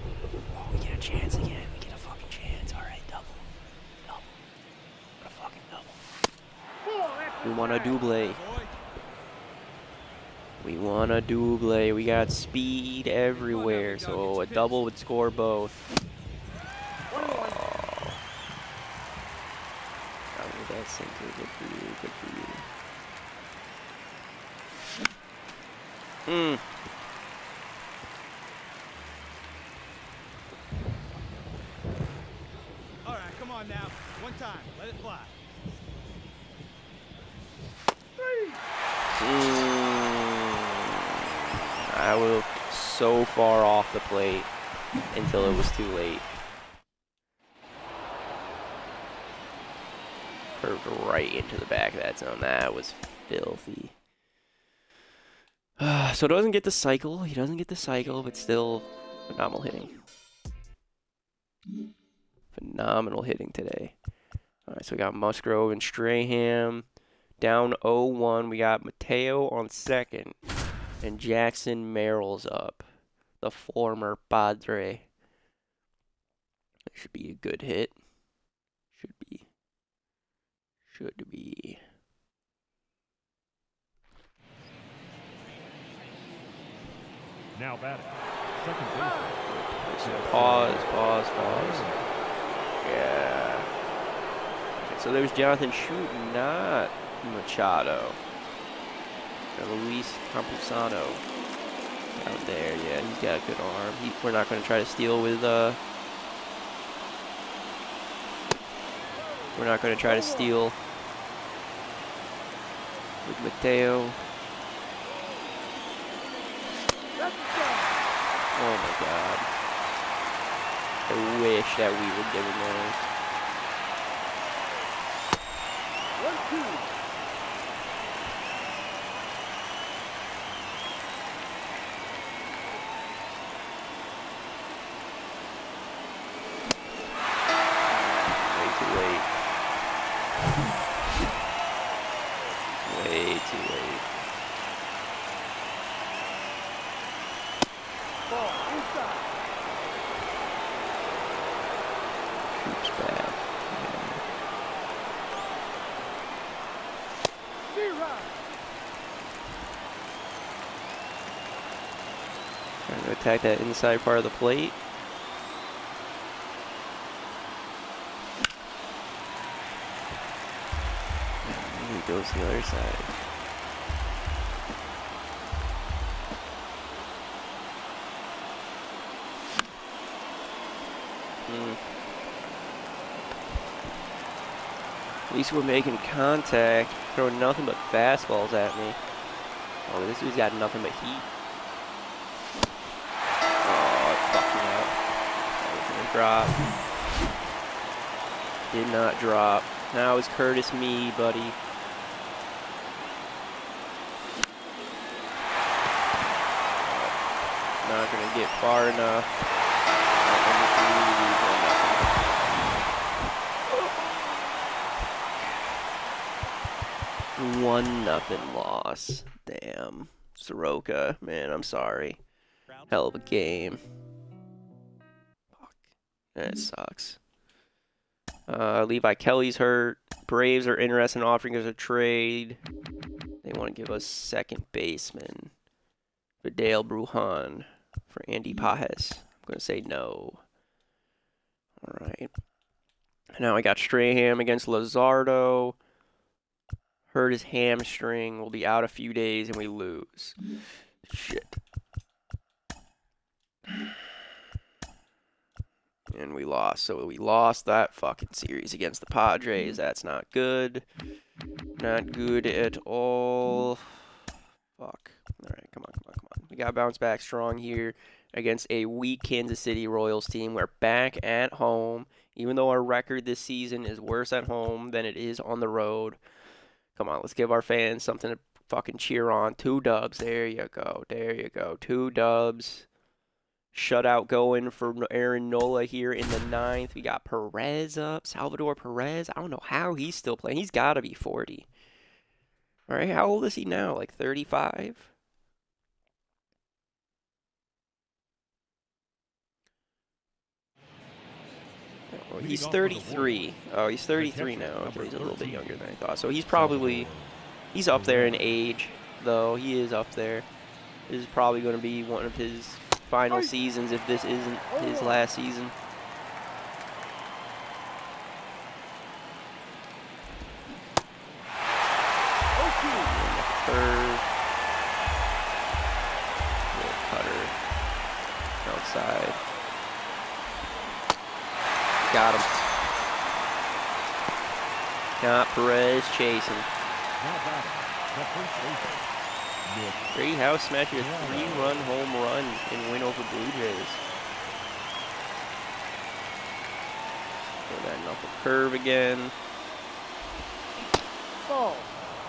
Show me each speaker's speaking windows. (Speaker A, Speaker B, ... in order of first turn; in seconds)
Speaker A: 0.5-3.5, 5.2-6.0, 7.4-8.4, 10.6-15.8, 17.1-18.2, 20.3-22.6, 26.3-26.6, 39.1-40.9, 41.9-44.5, 45.1-46.3, 50.6-54.0, 55.8-60.0, 62.5-64.0, 64.7-66.9, 67.4-70.4, 71.0-72.9, 73.4-75.1, 76.9-78.0, 78.9-79.5, 80.9-81.8, 89.5-91.9, 92.8-93.7, 94.8-98.2, 99.5-101.2, 102.2-105.8, 109.5-110.8, 113.2-114.2, 118.5-119.5, 121.1-123.0, 137.9-139.3, 142.8-144.1, 152.6-154.2, 162.9-164.8, 171.4-173.2, 181.5-181.8, 185.3-189.0, 189.9-191.3, 193.6-194.9, 195.6-196.6, 198.7-201.6, 206.8-207.2, 207.8-209.3, 210.2-212.2, 217.4-222.2, 222.9-223.8, 225.6-225.8, 226.3-227.2, 228.5-232.6, 233.4-235.5, 236.4-240.4, 241.8-242.3, 243.4-245.8, 247.1-250.4, 251.1-251.6, 256.1-260.9, 261.8-264.1, 264.8-276.2, 277.0-282.9, 283.7-291.7, 292.9-295.1, 302.1-307.1, 307.7-310.5, 311.1-315.8, 322.9-324.3, 326.7-327.6, 328.6-329.4, 332.0-332.6, 335.2-336.7, 340.1-344.0, 347.7-349.3
Speaker B: 6.8-8.0, 17.1-17.7, 38.2-38.6, 110.0-110.5, 117.2-118.0, 126.2-126.9, 148.3-149.3, 157.7-158.4, 314.7-315.3, 322.6-323.1, 351.5-351.9
Speaker C: 8.0-8.7, 13.3-14.8, 33.0-35.4
Speaker D: 87.5-92.1, 302.4-303.5, 304.2-305.8, 306.5-307.4, 307.9-308.6, 337.2-339.1, 339.6-340.2, 340.9-341.9